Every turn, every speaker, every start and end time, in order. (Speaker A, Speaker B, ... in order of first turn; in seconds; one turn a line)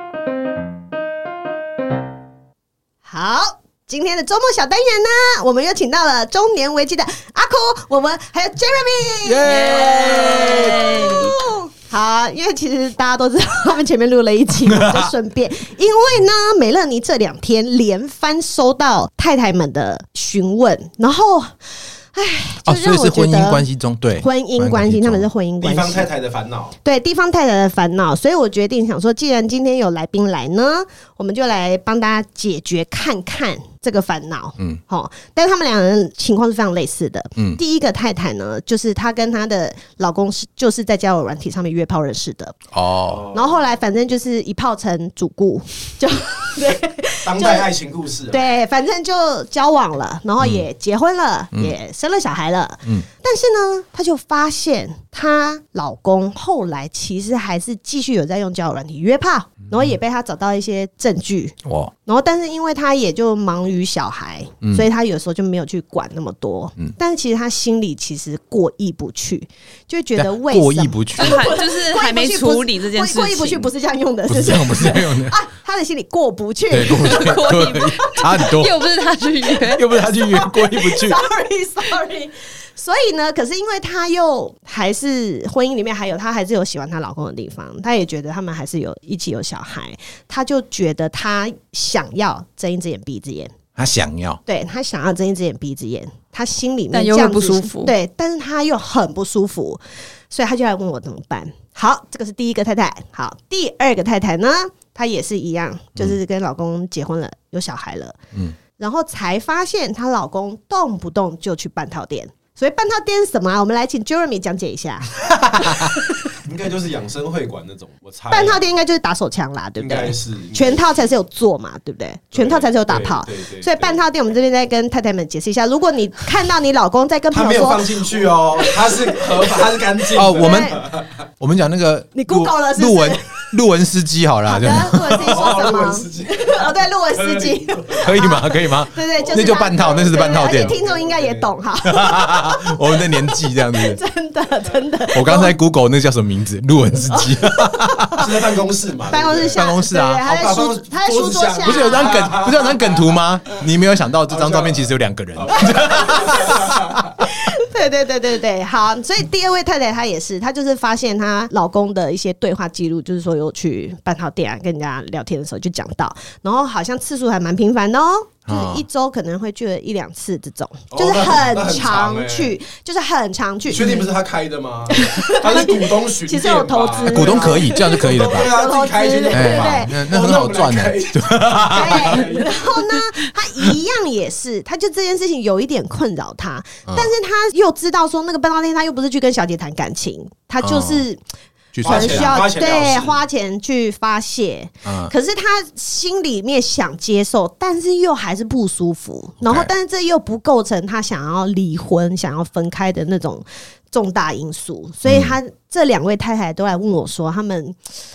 Speaker A: 3.0-23.6
Speaker B: 9.2-11.3
Speaker C: 9.4-11.2
Speaker B: 14.7-15.1
Speaker B: 22.6-25.3
Speaker A: 24.1-26.1
Speaker D: 25.6-26.7
Speaker A: 26.8-42.6
Speaker B: 42.7-43.3
Speaker D: 43.1-43.5
Speaker A: 43.3-47.7
Speaker D: 47.2-48.5
Speaker A: 48.3-77.4
Speaker B: 50.4-50.6
Speaker B: 61.6-61.9
Speaker B: 70.2-71.5
Speaker C: 71.2-73.7
Speaker B: 74.3-75.4
Speaker B: 76.7-78.7
Speaker C: 76.9-79.9
Speaker B: 79.7-81.2
Speaker A: 80.0-93.5
Speaker B: 93.8-94.4
Speaker A: 94.5-108.1
Speaker C: 96.9-97.9
Speaker A: 108.8-116.0
Speaker B: 115.5-115.9
Speaker D: 116.4-118.6
Speaker A: 118.3-129.5
Speaker D: 119.8-120.8
Speaker D: 122.3-124.0
Speaker D: 127.3-131.2
Speaker B: 130.1-130.8
Speaker A: 130.3-130.8
Speaker B: 131.4-135.5
Speaker A: 132.1-133.4
Speaker A: 134.4-145.6
Speaker D: 135.2-138.1
Speaker B: 138.0-140.8
Speaker D: 139.2-141.5
Speaker B: 141.8-144.0
Speaker B: 145.1-148.2
Speaker A: 147.1-148.1
Speaker D: 148.2-149.7
Speaker A: 149.1-152.2
Speaker B: 149.5-150.2
Speaker D: 150.2-153.1
Speaker B: 151.6-156.8
Speaker D: 154.3-156.9
Speaker A: 155.7-174.0
Speaker B: 168.5-168.8
Speaker D: 170.9-172.6
Speaker D: 173.7-182.7
Speaker A: 174.9-180.0
Speaker B: 177.1-178.5
Speaker B: 179.3-182.2
Speaker A: 181.7-191.2
Speaker B: 190.6-191.0
Speaker B: 191.7-192.4
Speaker D: 191.8-193.2
Speaker A: 191.8-207.8
Speaker B: 194.8-195.1
Speaker B: 199.4-199.7
Speaker B: 205.0-205.4